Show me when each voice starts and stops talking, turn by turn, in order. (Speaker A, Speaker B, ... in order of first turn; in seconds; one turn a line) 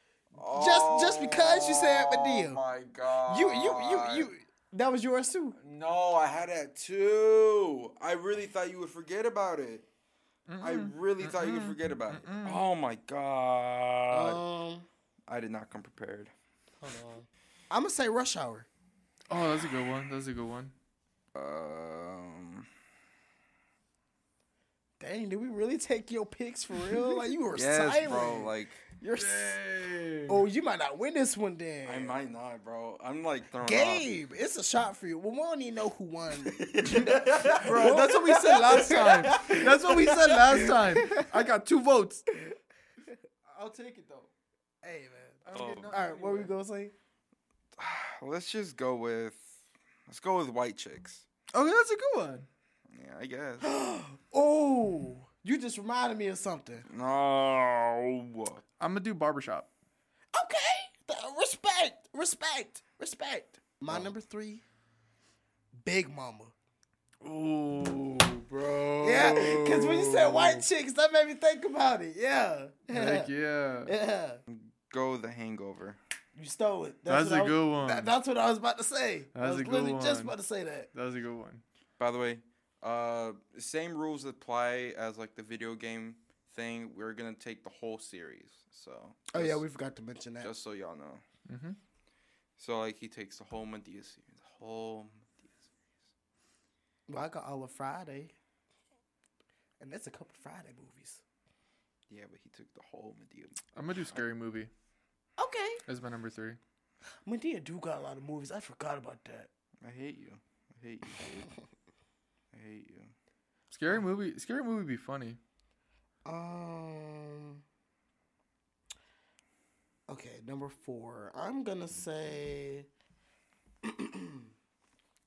Speaker A: 0.3-4.3
Speaker B: 0.5-2.6
Speaker B: 3.2-5.6
Speaker A: 5.6-9.9
Speaker C: 10.5-12.6
Speaker A: 10.6-14.4
Speaker B: 14.1-14.9
Speaker A: 15.3-16.3
Speaker B: 16.8-18.7
Speaker C: 19.3-20.7
Speaker A: 21.3-22.7
Speaker B: 25.0-29.6
Speaker A: 27.5-28.8
Speaker C: 29.1-30.4
Speaker B: 30.3-32.1
Speaker A: 31.8-34.1
Speaker B: 33.6-41.4
Speaker A: 36.4-39.6
Speaker C: 37.6-42.3
Speaker C: 43.5-44.3
Speaker B: 44.8-46.9
Speaker C: 45.4-46.5
Speaker A: 45.5-45.9
Speaker A: 47.8-51.2
Speaker C: 51.5-52.5
Speaker A: 52.9-53.7
Speaker B: 53.6-56.9
Speaker A: 56.9-58.6
Speaker C: 58.8-59.7
Speaker B: 60.3-64.6
Speaker B: 65.8-66.5
Speaker C: 67.2-70.6
Speaker B: 69.0-73.3
Speaker C: 72.9-73.9
Speaker B: 73.8-74.4
Speaker A: 74.5-76.0
Speaker B: 76.3-80.9
Speaker C: 77.1-78.1
Speaker C: 79.3-80.3
Speaker C: 80.9-81.6
Speaker A: 82.0-89.6
Speaker B: 89.3-90.5
Speaker A: 90.4-91.2
Speaker C: 91.5-91.8
Speaker A: 92.6-95.7
Speaker B: 97.1-98.3
Speaker B: 99.8-101.2
Speaker A: 102.1-104.2
Speaker C: 103.7-104.7
Speaker B: 105.4-105.8
Speaker C: 105.9-106.6
Speaker B: 107.2-109.5
Speaker A: 109.8-111.5
Speaker A: 112.5-113.1
Speaker C: 113.7-115.4
Speaker B: 116.2-117.6
Speaker B: 120.1-122.9
Speaker B: 123.8-124.5